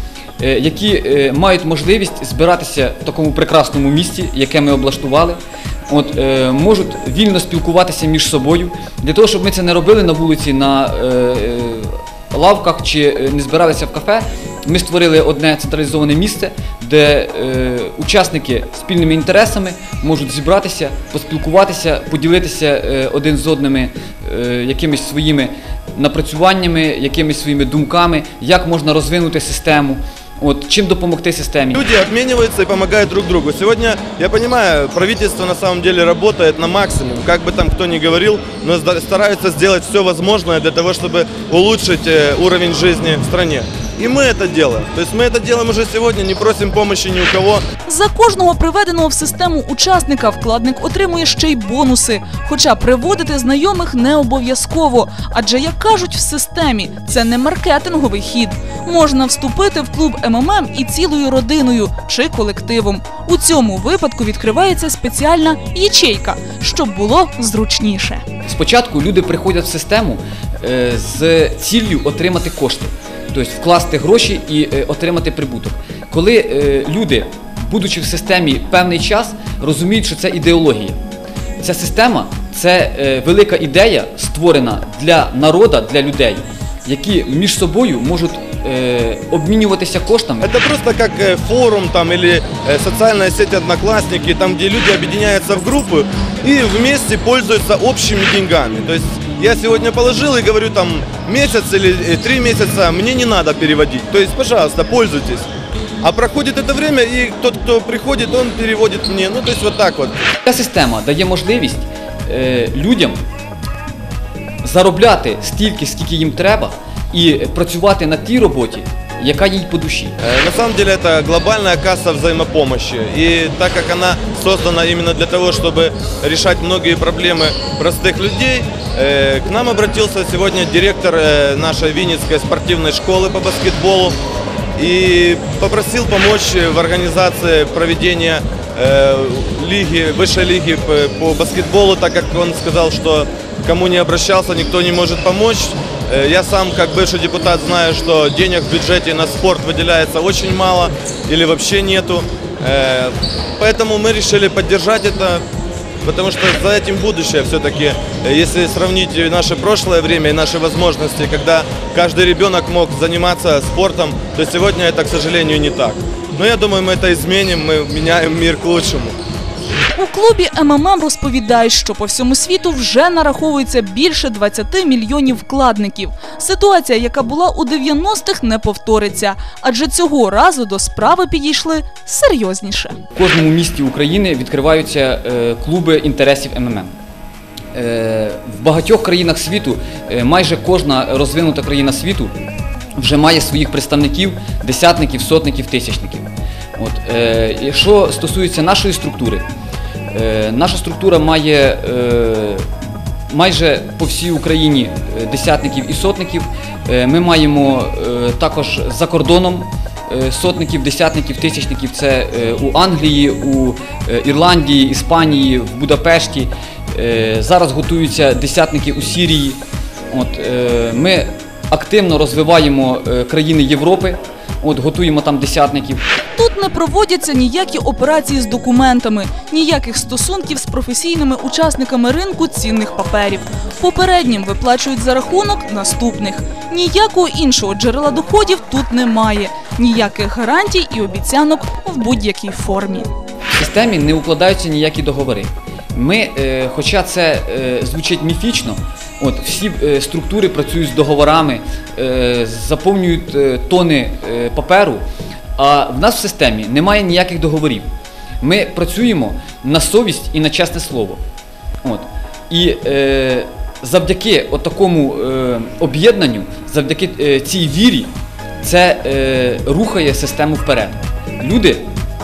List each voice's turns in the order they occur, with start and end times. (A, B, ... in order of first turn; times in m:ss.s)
0:00.4-0:31.8 A
0:31.8-0:47.6 B
0:47.9-1:08.2 C
1:08.4-1:21.0 A
1:21.6-1:30.5 A
1:30.4-1:45.5 B
1:46.0-1:50.2 B
1:50.4-1:53.2 A
1:54.6-2:00.2 A
2:00.2-2:14.2 B
2:14.8-2:35.4 B
2:36.0-2:49.2 B
2:49.9-3:03.0 C
3:03.1-3:06.9 A
3:07.7-3:12.3 A
3:13.0-3:19.4 A
3:20.1-3:22.7 A
3:23.3-3:39.6 A
3:40.1-3:46.0 A
3:46.4-4:03.1 C
4:03.5-4:15.0 A
4:15.6-4:17.9 A
4:18.4-4:21.2 A
4:21.8-4:31.9 A